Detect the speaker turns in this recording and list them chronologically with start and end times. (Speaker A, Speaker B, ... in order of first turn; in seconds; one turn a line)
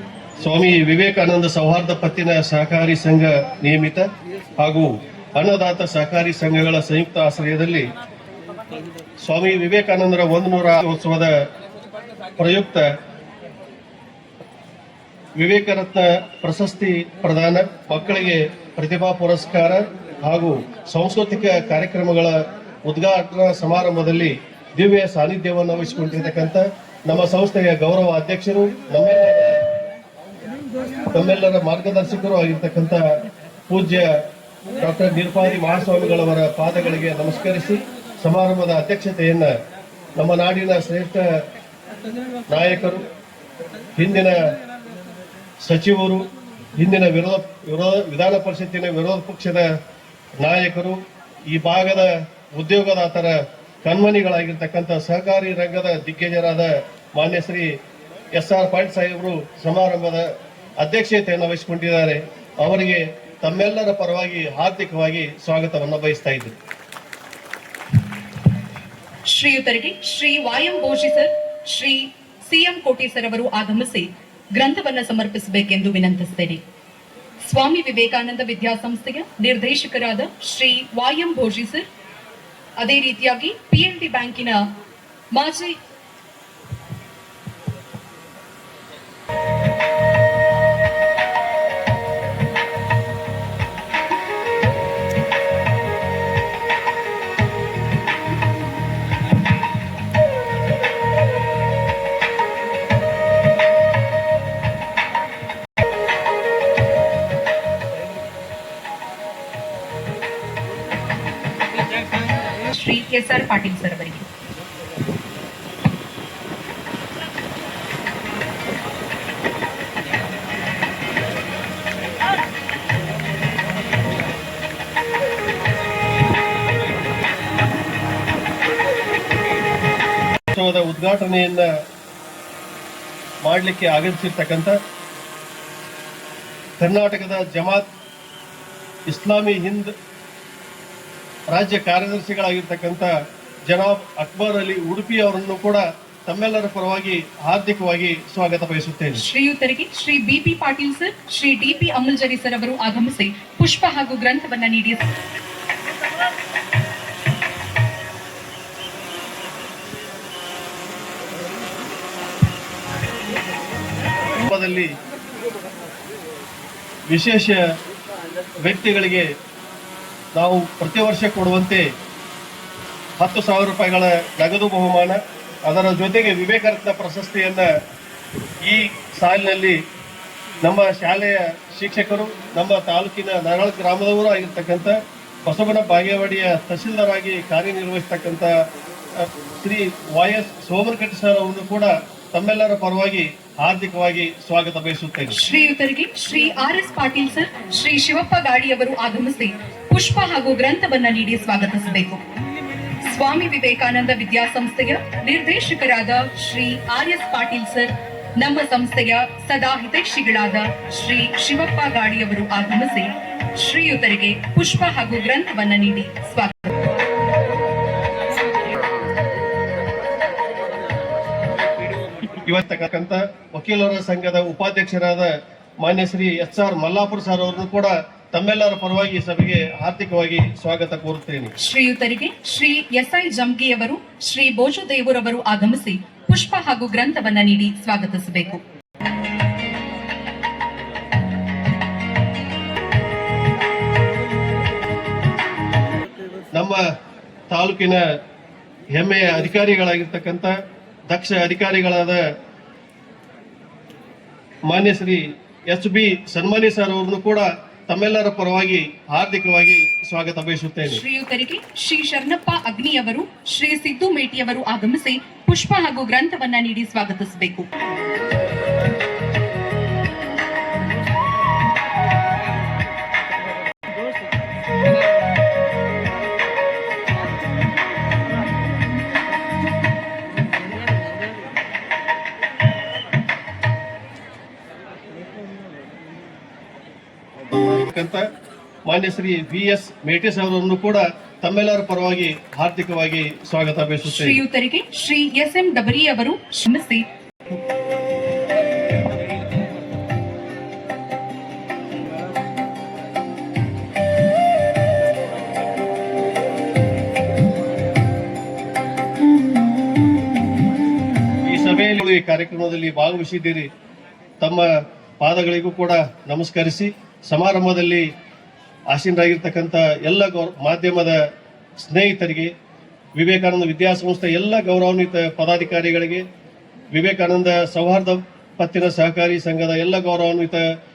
Speaker A: 0.4-4.1
Speaker A: 4.6-7.9
Speaker A: 9.2-11.4
Speaker A: 12.4-12.9
Speaker A: 15.4-29.7
Speaker A: 31.1-33.0
Speaker A: 33.7-34.2
Speaker A: 34.8-39.5
Speaker A: 40.2-41.4
Speaker A: 42.5-43.0
Speaker A: 44.0-44.5
Speaker A: 45.6-49.7
Speaker A: 50.4-57.7
Speaker A: 58.4-66.5
Speaker B: 69.3-76.6
Speaker B: 77.4-81.8
Speaker B: 82.8-84.7
Speaker B: 85.3-85.8
Speaker B: 112.7-114.3
Speaker A: 130.5-131.7
Speaker A: 133.4-134.8
Speaker A: 136.8-137.9
Speaker A: 139.1-139.9
Speaker A: 141.5-143.1
Speaker A: 143.7-149.2
Speaker B: 149.2-155.1
Speaker A: 164.4-164.9
Speaker A: 167.1-167.6
Speaker A: 168.6-169.3
Speaker A: 170.3-171.8
Speaker A: 173.2-177.7
Speaker A: 178.6-179.8
Speaker A: 180.6-188.5
Speaker A: 189.2-195.4
Speaker B: 195.3-202.2
Speaker B: 203.0-216.8
Speaker A: 222.3-231.5
Speaker B: 231.6-238.6
Speaker A: 246.6-246.8
Speaker A: 247.5-248.1
Speaker A: 249.0-250.6
Speaker A: 251.1-252.2
Speaker A: 254.7-261.0
Speaker B: 260.9-267.7
Speaker A: 287.8-288.3
Speaker A: 288.9-294.4
Speaker B: 294.1-297.1
Speaker A: 311.5-313.7
Speaker A: 314.4-318.1
Speaker A: 318.9-321.2
Speaker A: 321.8-322.5
Speaker A: 323.2-326.2
Speaker A: 326.9-330.6